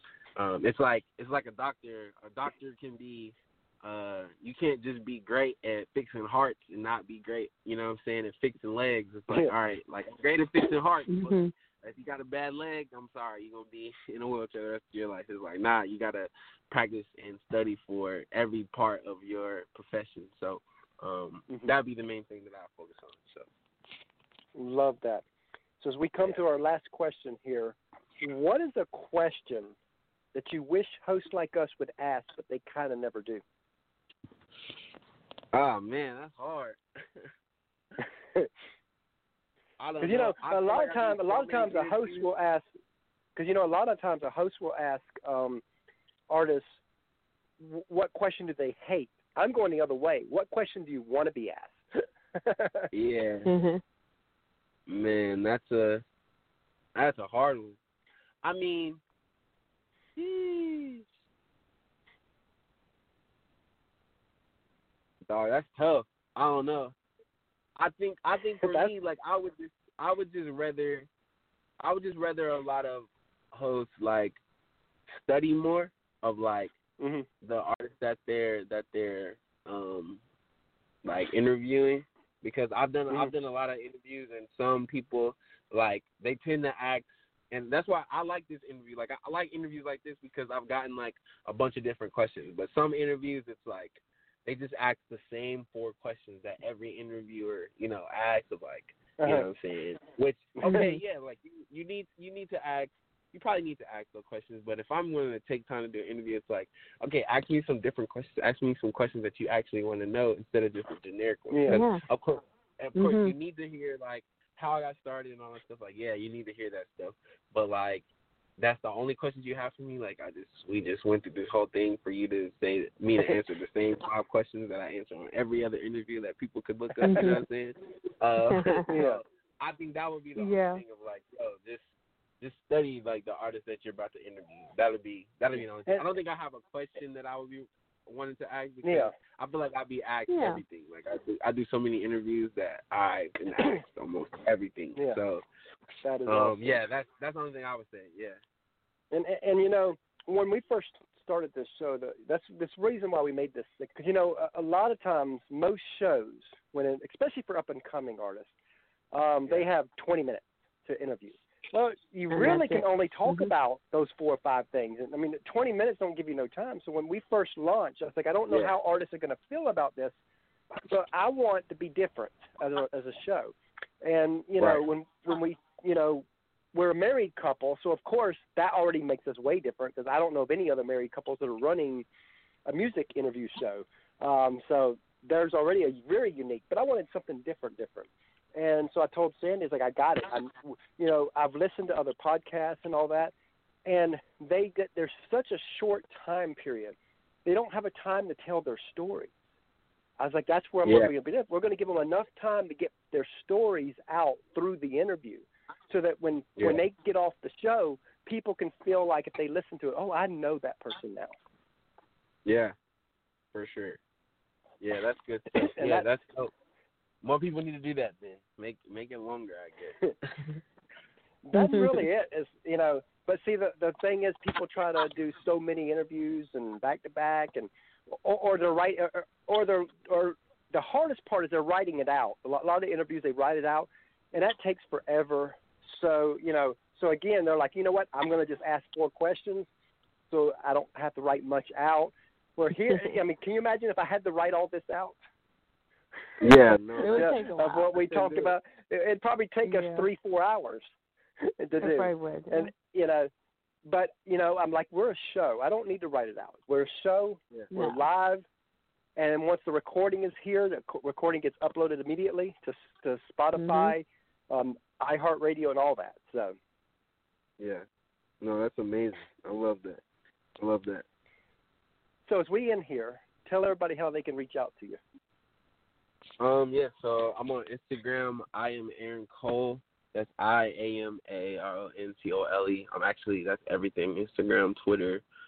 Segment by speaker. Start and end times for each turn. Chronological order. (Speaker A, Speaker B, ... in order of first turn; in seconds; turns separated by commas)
Speaker A: 0.4-23.5, Speaker B: 11.1-11.5, Speaker C: 24.6-25.2, Speaker C: 25.8-29.8, Speaker C: 30.3-33.4, Speaker A: 35.5-37.3, Speaker A: 39.8-42.3, Speaker C: 40.0-42.7, Speaker C: 43.4-45.6, Speaker C: 46.3-46.8, Speaker C: 47.6-52.9, Speaker A: 52.9-53.5, Speaker B: 53.5-53.8, Speaker A: 54.9-56.0, Speaker A: 57.0-57.8, Speaker A: 58.4-59.0, Speaker A: 60.2-61.1, Speaker A: 65.3-67.0, Speaker A: 67.8-71.1, Speaker C: 68.6-68.9, Speaker A: 71.8-74.4, Speaker A: 75.1-76.8, Speaker C: 77.0-77.3, Speaker A: 77.4-80.2, Speaker A: 81.0-118.1, Speaker C: 99.2-99.5, Speaker B: 100.7-101.0, Speaker C: 111.5-111.8, Speaker B: 111.7-112.0, Speaker B: 113.0-113.3, Speaker A: 118.6-145.4, Speaker B: 127.0-127.4, Speaker B: 128.5-128.9, Speaker C: 128.9-129.2, Speaker B: 130.4-130.8, Speaker C: 138.8-139.1, Speaker B: 140.3-140.6, Speaker C: 146.0-146.8, Speaker A: 146.3-148.4, Speaker C: 149.1-158.5, Speaker C: 159.1-170.2, Speaker B: 162.3-163.5, Speaker A: 168.5-168.8, Speaker C: 170.8-182.1, Speaker C: 182.7-193.3, Speaker C: 193.9-199.3, Speaker C: 200.2-211.3, Speaker A: 200.8-201.1, Speaker A: 212.4-212.8, Speaker A: 213.5-214.0, Speaker A: 214.8-216.5, Speaker C: 215.6-216.1, Speaker A: 217.2-220.6, Speaker C: 221.4-239.7, Speaker B: 221.5-222.0, Speaker C: 240.3-245.2, Speaker A: 246.4-248.6, Speaker B: 246.4-248.0, Speaker C: 247.1-250.9, Speaker B: 249.7-250.1, Speaker C: 251.4-253.3, Speaker B: 251.8-252.7, Speaker C: 253.8-258.4, Speaker B: 257.7-258.0, Speaker C: 259.2-266.6, Speaker B: 263.6-263.9, Speaker A: 267.6-267.9, Speaker A: 268.4-270.0, Speaker A: 270.6-271.1, Speaker C: 272.3-275.0, Speaker A: 276.4-285.2